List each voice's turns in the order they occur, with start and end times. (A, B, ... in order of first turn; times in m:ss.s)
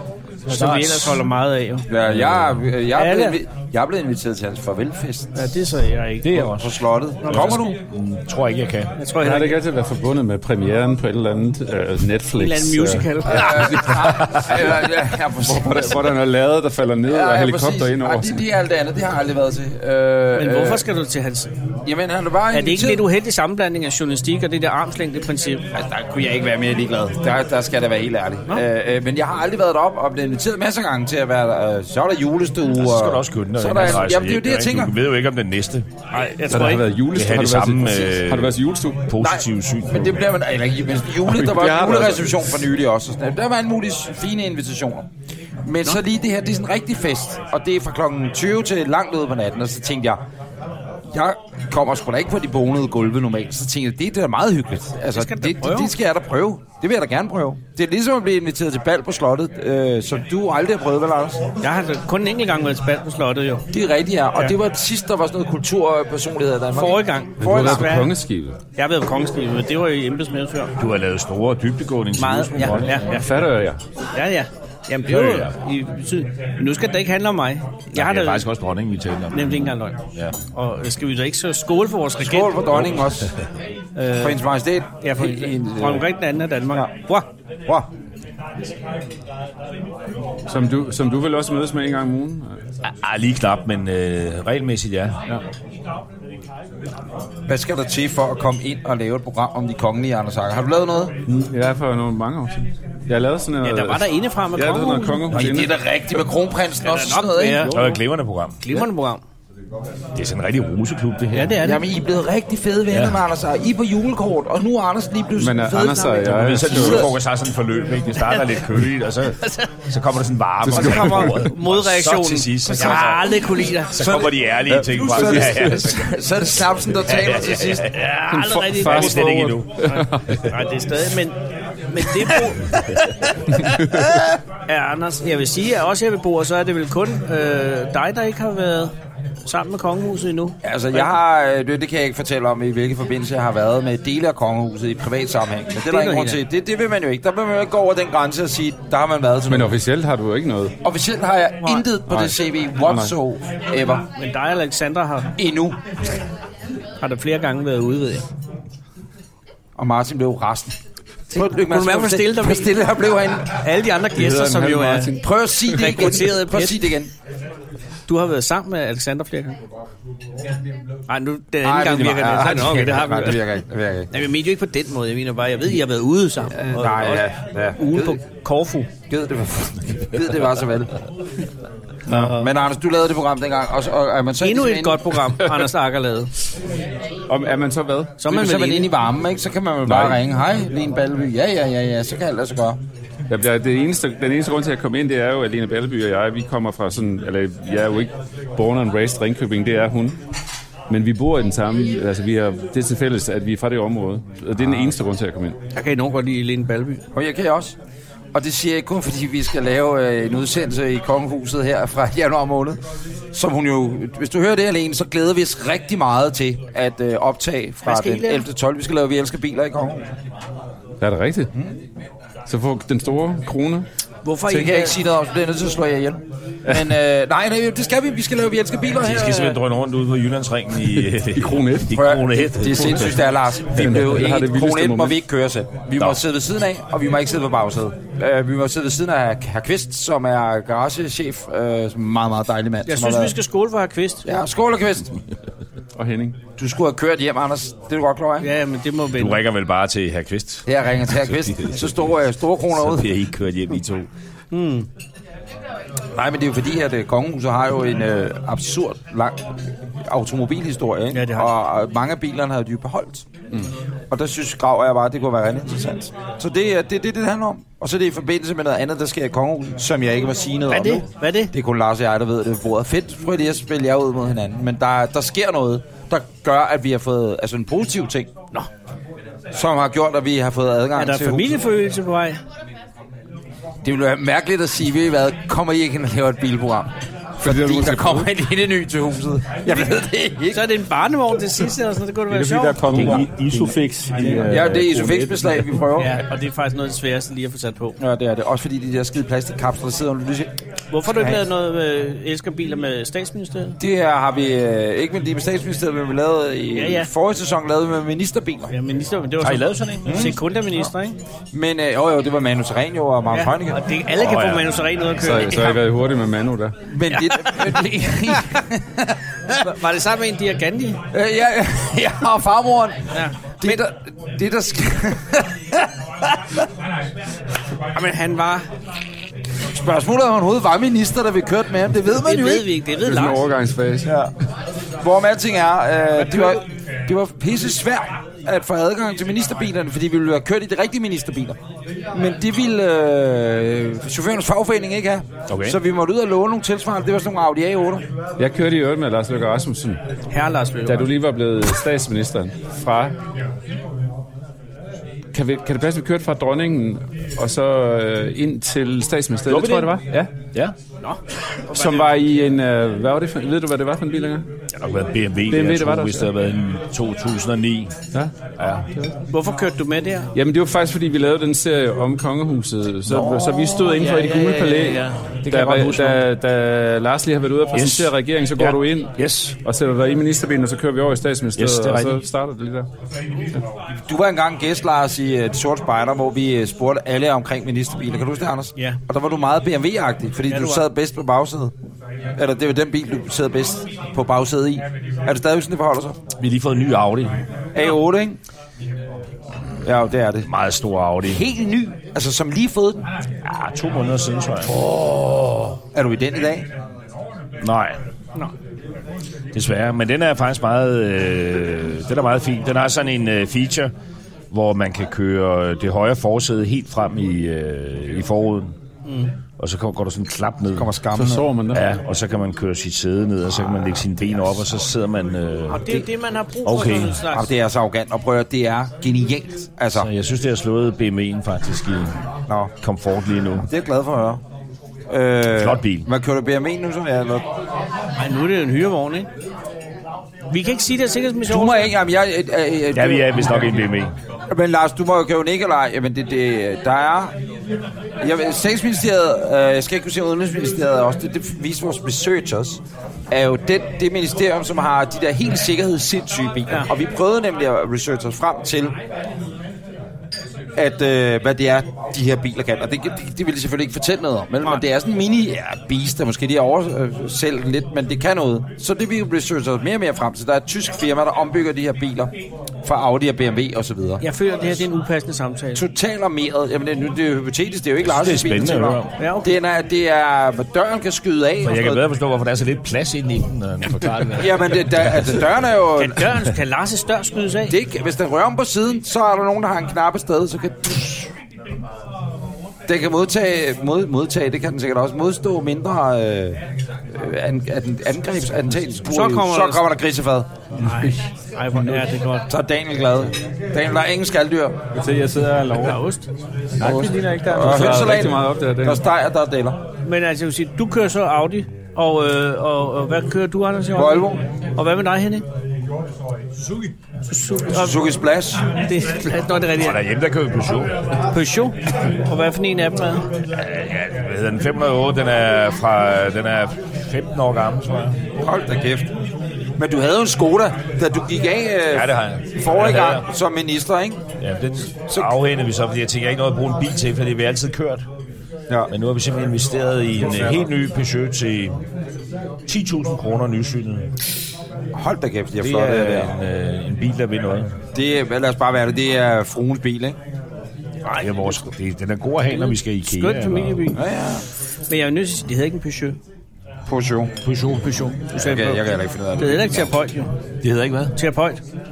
0:00.5-0:01.9 A
0:00.5-0:01.2 B
0:01.9-0:05.5 C
0:02.1-0:02.5 B
0:02.9-0:03.4 A
0:05.3-0:06.5 A
0:06.2-0:06.6 B
0:06.5-0:07.7 C
0:07.2-0:07.7 A
0:07.3-0:08.9 B
0:09.0-0:09.6 A
0:09.2-0:13.4 D
0:12.3-0:13.9 A
0:13.3-0:16.2 C
0:14.1-0:14.4 B
0:15.4-0:18.4 D
0:17.0-0:20.9 C
0:20.3-0:21.5 A
0:21.8-0:23.0 C
0:22.5-0:25.6 A
0:25.7-0:34.9 C
0:32.8-0:35.9 B
0:36.1-0:36.8 A
0:36.5-0:39.0 D
0:37.1-0:40.2 B
0:39.2-0:45.1 C
0:41.2-0:42.5 D
0:45.6-0:50.2 C
0:51.1-1:01.4 C
0:55.1-0:55.9 A
1:01.6-1:03.6 A
1:03.7-1:08.0 C
1:06.7-1:08.1 A
1:07.4-1:08.6 D
1:08.8-1:10.7 A
1:10.8-1:13.1 B
1:12.2-1:13.3 A
1:12.6-1:13.8 D
1:14.1-1:18.5 A
1:15.1-1:15.5 B
1:17.9-1:20.3 B
1:19.3-1:20.0 A
1:20.5-1:22.7 A
1:22.2-1:23.3 C
1:24.0-1:24.4 A
1:24.2-1:26.1 C
1:25.0-1:27.2 A
1:30.5-1:32.6 D
1:32.8-1:35.2 B
1:37.5-1:41.1 C
1:41.3-1:45.7 D
1:43.6-1:45.5 A
1:45.3-1:47.8 C
1:46.8-1:48.0 A
1:47.6-1:48.8 B
1:48.6-1:49.2 A
1:50.1-1:51.6 B
1:51.3-1:51.8 A
1:51.6-1:57.1 C
1:52.9-1:53.2 B
1:55.4-1:57.1 D
1:56.3-2:06.1 B
1:59.4-1:59.7 A
2:00.6-2:01.5 D
2:00.7-2:04.3 A
2:00.8-2:01.3 C
2:02.7-2:07.9 C
2:04.8-2:05.9 D
2:07.0-2:08.0 B
2:07.5-2:14.1 A
2:08.3-2:10.4 D
2:08.7-2:10.0 B
2:13.6-2:14.1 D
2:14.7-2:18.9 A
2:19.4-2:21.1 A
2:20.6-2:29.7 C
2:25.8-2:26.4 A
2:29.5-2:30.7 D
2:30.8-2:34.0 C
2:32.1-2:33.1 D
2:34.2-2:35.3 A
2:35.4-2:35.8 C
2:37.0-2:38.2 A
2:39.8-2:40.7 C
2:41.3-2:42.7 A
2:41.3-2:43.6 C
2:43.5-2:46.9 A
2:44.1-2:45.2 D
2:45.2-2:47.1 C
2:48.1-2:49.6 A
2:51.1-2:53.4 A
2:51.6-2:54.1 C
2:54.1-2:58.9 A
2:56.6-2:58.2 C
2:59.1-3:00.9 C
3:02.1-3:05.2 C
3:02.1-3:02.4 A
3:04.4-3:06.3 A
3:07.3-3:08.2 D
3:08.2-3:08.9 A
3:08.3-3:12.8 C
3:09.8-3:10.2 D
3:13.3-3:20.2 D
3:20.9-3:25.6 D
3:25.7-3:27.0 A
3:27.1-3:27.8 C
3:28.3-3:32.8 C
3:33.3-3:40.0 C
3:37.8-3:38.4 A
3:41.0-3:41.5 D
3:42.5-3:43.8 D
3:44.2-3:45.0 A
3:44.5-3:49.5 C
3:49.0-3:53.1 B
3:49.1-3:49.6 A
3:51.0-3:51.9 D
3:51.9-4:03.3 C
3:52.7-3:53.1 D
3:53.7-3:55.2 D
4:02.8-4:04.2 A
4:04.2-4:05.1 C
4:06.0-4:06.4 D
4:06.6-4:08.5 C
4:08.4-4:09.4 A
4:09.2-4:10.7 B
4:10.7-4:13.1 C
4:11.3-4:12.0 B
4:12.7-4:14.1 B
4:14.5-4:14.9 A
4:16.1-4:19.5 C
4:20.1-4:23.2 C
4:21.1-4:21.5 A
4:24.1-4:38.3 C
4:30.7-4:31.5 A
4:39.5-4:41.5 C
4:40.9-4:42.4 A
4:43.8-4:46.9 C
4:47.4-4:48.3 D
4:47.4-4:50.6 C
4:50.5-4:52.9 A
4:52.3-4:55.6 E
4:52.9-4:53.4 B
4:54.4-4:56.2 C
4:56.0-4:58.0 A
4:58.0-5:00.5 C
5:00.9-5:03.8 A
5:01.1-5:01.4 C
5:03.8-5:08.7 C
5:06.7-5:07.1 A
5:08.7-5:11.2 A
5:09.4-5:10.3 B
5:10.0-5:10.4 C
5:11.5-5:13.8 C
5:13.3-5:15.8 A
5:14.2-5:14.7 B
5:15.2-5:16.8 D
5:16.9-5:19.2 C
5:17.1-5:17.8 A
5:19.5-5:21.0 A
5:21.1-5:23.1 C
5:23.1-5:23.8 A
5:23.6-5:25.9 C
5:27.9-5:28.7 A
5:29.7-5:32.6 C
5:32.1-5:33.4 A
5:33.0-5:34.1 D
5:34.0-5:34.3 C
5:35.0-5:41.6 C
5:42.1-5:48.0 C
5:45.5-5:45.8 B
5:48.4-5:50.0 D
5:50.3-5:51.1 A
5:50.9-5:53.1 D
5:55.3-6:00.3 D
5:59.5-6:00.0 B
6:01.0-6:02.1 A
6:01.7-6:04.5 D
6:04.8-6:07.9 B
6:05.5-6:06.3 D
6:08.6-6:08.8 B
6:09.3-6:10.3 A
6:10.3-6:22.9 D
6:13.0-6:16.2 B
6:17.7-6:19.6 B
6:21.6-6:22.2 B
6:24.1-6:31.7 C
6:30.5-6:30.8 A
6:32.4-6:36.2 C
6:36.4-6:37.4 B
6:37.7-6:38.4 C
6:39.8-6:40.5 C
6:40.4-6:41.4 B
6:41.3-6:43.0 C
6:43.4-6:45.8 B
6:45.9-6:46.7 C
6:47.6-6:48.0 B
6:49.5-6:53.9 B
6:54.5-6:58.7 B
6:59.0-6:59.3 A
6:59.6-7:00.9 B
7:00.8-7:01.5 C
7:01.1-7:01.8 D
7:01.7-7:06.0 B
7:05.7-7:07.5 A
7:06.6-7:07.2 B
7:07.2-7:10.1 C
7:09.9-7:12.1 B
7:12.5-7:12.7 C
7:12.8-7:13.7 B
7:13.7-7:14.4 C
7:15.1-7:17.4 C
7:15.6-7:16.1 B
7:18.2-7:19.3 A
7:20.5-7:21.9 A
7:21.5-7:23.8 C
7:22.9-7:24.1 B
7:24.5-7:27.3 C
7:28.2-7:38.9 C
7:40.8-7:52.3 C
7:52.8-7:54.2 C
7:54.2-7:55.8 A
7:55.7-8:02.0 C
7:58.0-7:59.2 B
7:59.2-7:59.5 A
8:01.6-8:04.8 B
8:04.4-8:06.3 C
8:06.0-8:07.7 A
8:07.7-8:11.3 C
8:12.9-8:16.6 C
8:17.1-8:20.5 C
8:19.0-8:19.8 A
8:20.8-8:22.5 A
8:22.5-8:24.8 C
8:24.9-8:26.0 E
8:25.8-8:26.3 A
8:26.8-8:28.2 E
8:26.8-8:29.8 C
8:27.4-8:29.0 D
8:30.0-8:35.4 A
8:34.0-8:34.4 C
8:37.2-8:38.0 A
8:37.7-8:38.6 C
8:38.8-8:40.0 A
8:39.8-8:40.9 B
8:41.3-8:43.3 A
8:43.5-8:48.2 B
8:48.4-8:49.1 C
8:49.8-8:54.2 C
8:51.9-8:53.2 B
8:54.4-8:58.0 B
8:58.9-9:01.8 B
9:02.6-9:04.1 B
9:04.9-9:06.3 C
9:05.6-9:07.7 B
9:07.9-9:10.2 C
9:11.0-9:11.7 A
9:11.2-9:13.9 B
9:12.5-9:14.0 A
9:13.9-9:14.4 C
9:14.9-9:16.2 A
9:16.9-9:17.3 C
9:17.4-9:18.2 B
9:17.9-9:20.3 A
9:18.4-9:19.9 C
9:20.6-9:21.1 B
9:21.1-9:21.6 A